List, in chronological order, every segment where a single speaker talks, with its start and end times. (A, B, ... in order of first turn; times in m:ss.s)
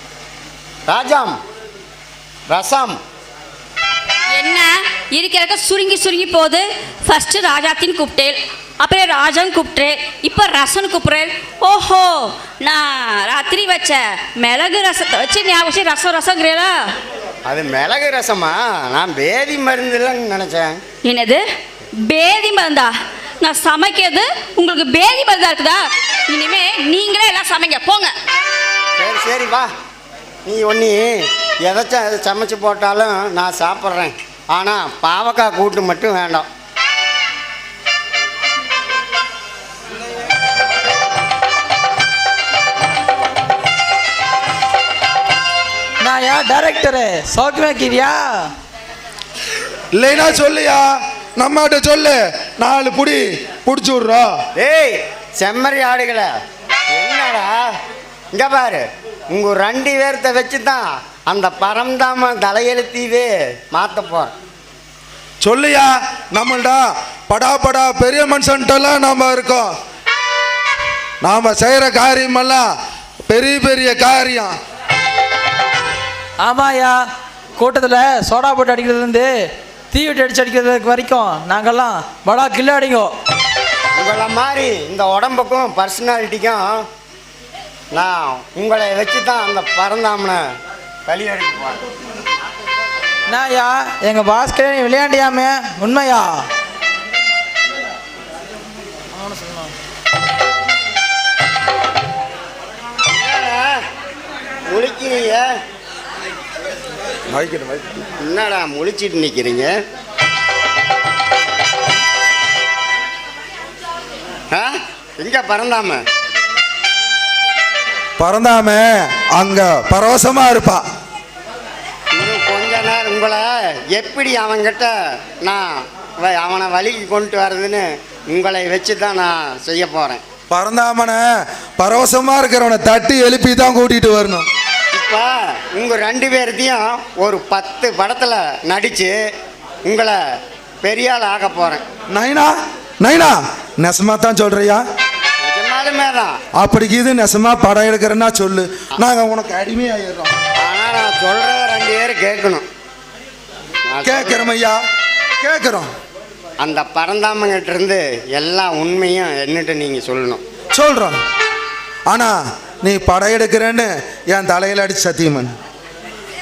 0:00.8-0:01.4 A
0:02.5-0:03.0 A
0:04.3-0:16.7 B
0:17.5-0:20.8 A
0:21.0-0:21.4 B
0:22.1-0:28.1 B
0:29.0-0:29.7 A
0:30.4-0:36.4 A
0:46.0-0:48.5 C
0:49.9-0:50.8 D
0:51.4-0:54.3 D
0:54.6-0:56.3 A
0:56.9-0:57.6 A
0:58.3-1:04.3 A
1:05.4-1:09.7 D
1:11.2-1:12.6 D
1:13.3-1:14.6 D
1:16.4-1:17.0 C
1:17.6-1:19.3 C
1:19.9-1:23.1 C
1:24.0-1:26.8 A
1:27.9-1:30.4 A
1:31.1-1:31.8 A
1:33.3-1:36.4 C
1:39.2-1:39.6 C
1:43.1-1:43.8 A
1:44.7-1:45.5 A
1:47.3-1:47.9 D
1:48.2-1:49.7 A
1:54.5-1:56.0 A
1:58.2-2:00.8 D
2:02.1-2:10.2 A
2:10.5-2:11.2 D
2:11.8-2:14.5 D
2:14.9-2:19.1 A
2:19.8-2:20.2 A
2:20.8-2:21.8 A
2:22.1-2:24.8 D
2:25.4-2:26.3 A
2:26.5-2:30.3 D
2:30.6-2:32.6 A
2:33.9-2:34.5 A
2:34.0-2:34.8 D
2:35.4-2:35.9 D
2:36.6-2:40.4 A
2:40.7-2:41.2 D
2:42.1-2:45.5 D